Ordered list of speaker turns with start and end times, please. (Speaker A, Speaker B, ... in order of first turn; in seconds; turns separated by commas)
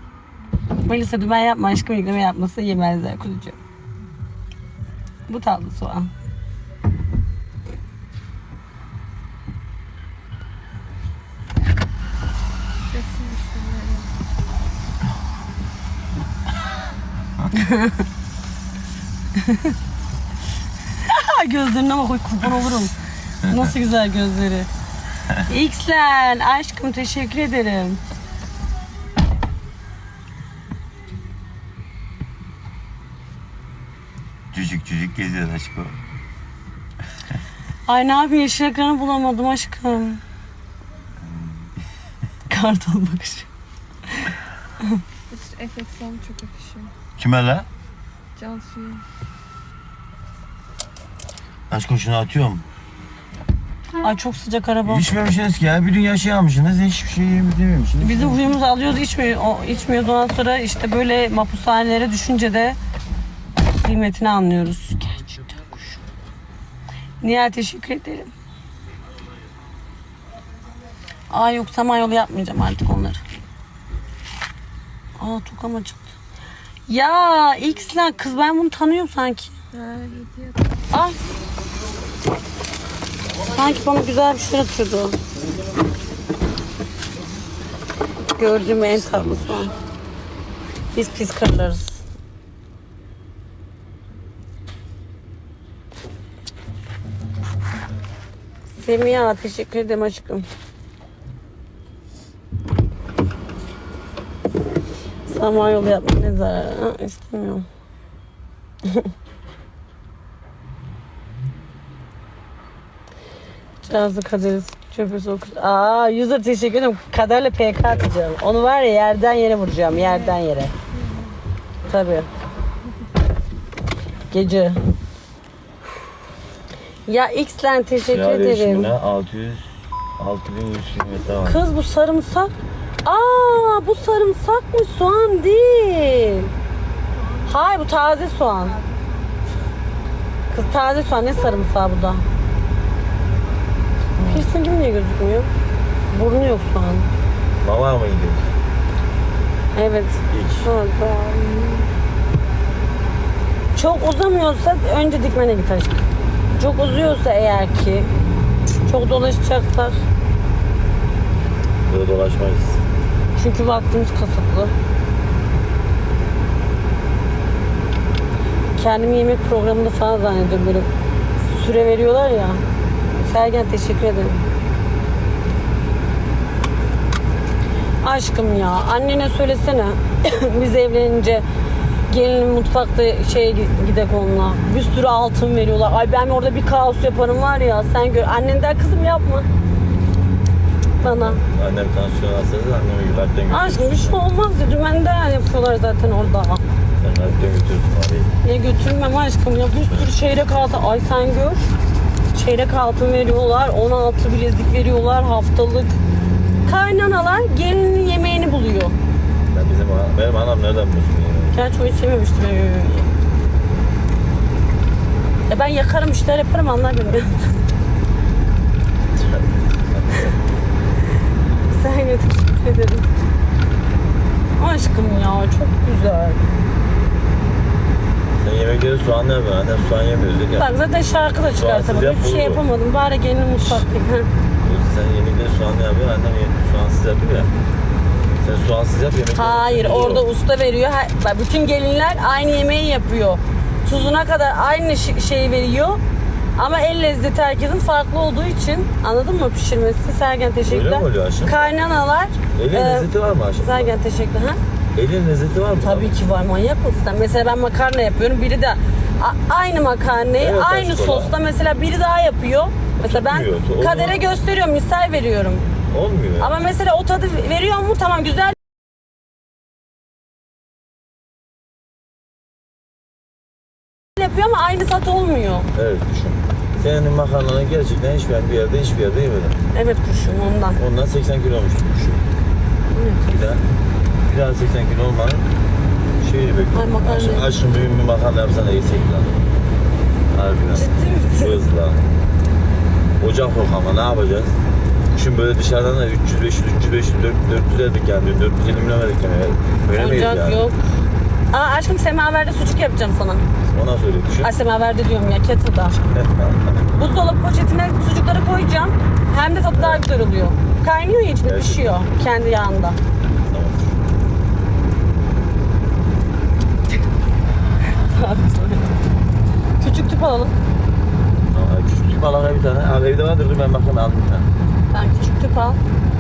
Speaker A: 0.9-3.6, Speaker A: 5.3-6.1, Speaker B: 12.9-14.1, Speaker A: 17.5-18.1, Speaker A: 19.4-19.7, Speaker A: 21.0-24.7, Speaker A: 25.5-28.0, Speaker C: 34.5-36.0, Speaker A: 37.9-40.2, Speaker A: 42.5-43.5, Speaker B: 45.3-46.9, Speaker C: 47.2-47.7, Speaker B: 48.4-49.0, Speaker C: 51.7-52.6, Speaker A: 54.0-55.1, Speaker C: 54.9-58.5, Speaker A: 58.0-62.8, Speaker A: 63.7-66.0, Speaker A: 67.2-68.3, Speaker A: 71.3-73.2, Speaker A: 75.2-76.1, Speaker A: 76.9-79.5, Speaker B: 79.7-80.8, Speaker A: 80.9-81.2, Speaker A: 83.5-85.2, Speaker A: 88.3-89.7, Speaker A: 90.9-92.0, Speaker A: 98.8-100.5, Speaker A: 105.3-107.7, Speaker A: 113.8-120.7, Speaker B: 120.0-120.4, Speaker B: 120.9-121.4, Speaker A: 121.9-122.3, Speaker A: 124.3-124.8, Speaker A: 127.1-128.9, Speaker C: 128.1-131.6, Speaker A: 131.4-132.5, Speaker A: 133.0-136.5, Speaker A: 137.4-138.8, Speaker A: 140.5-142.2, Speaker C: 144.2-144.5, Speaker A: 144.2-145.5, Speaker A: 146.1-147.1, Speaker C: 147.6-148.5, Speaker A: 149.8-151.9, Speaker C: 150.3-150.7, Speaker A: 153.8-158.1, Speaker A: 158.8-160.0, Speaker C: 161.9-162.8, Speaker A: 163.4-164.8, Speaker A: 168.8-170.9, Speaker A: 171.4-172.6, Speaker A: 173.2-174.4, Speaker A: 178.0-181.4, Speaker A: 182.1-189.5, Speaker A: 191.0-191.4, Speaker C: 191.0-194.2, Speaker A: 193.5-196.6, Speaker C: 197.0-198.3, Speaker A: 198.4-201.7, Speaker A: 202.3-206.0, Speaker A: 206.7-209.0, Speaker C: 209.5-211.6, Speaker A: 211.5-213.1, Speaker A: 215.5-217.6, Speaker C: 219.9-220.3, Speaker A: 221.7-223.1, Speaker A: 224.6-226.4, Speaker C: 228.4-230.7, Speaker A: 230.6-234.3, Speaker C: 231.6-232.6, Speaker C: 234.6-237.5, Speaker C: 238.4-240.3, Speaker A: 239.3-246.0, Speaker A: 246.6-253.1, Speaker C: 250.7-251.7, Speaker C: 252.6-253.9, Speaker A: 253.6-254.6, Speaker C: 254.9-256.1, Speaker A: 255.8-265.7, Speaker C: 260.4-261.3, Speaker C: 263.0-264.4, Speaker C: 265.9-266.6, Speaker A: 266.4-268.6, Speaker A: 274.2-275.7, Speaker C: 275.7-279.6, Speaker A: 279.7-280.8, Speaker C: 280.8-282.2, Speaker A: 282.9-283.3, Speaker C: 283.3-283.6, Speaker C: 284.2-285.5, Speaker C: 286.2-289.3, Speaker A: 286.7-287.5, Speaker C: 290.3-292.1, Speaker A: 290.7-291.6, Speaker C: 293.2-294.6, Speaker C: 295.1-300.6, Speaker A: 299.9-300.8, Speaker A: 301.5-303.5, Speaker C: 303.7-304.5, Speaker A: 304.4-306.0, Speaker C: 306.1-306.6, Speaker A: 306.9-313.0, Speaker C: 311.4-312.0, Speaker C: 313.5-313.9, Speaker A: 317.9-318.9, Speaker A: 319.8-320.6, Speaker C: 321.5-324.5, Speaker A: 324.9-325.8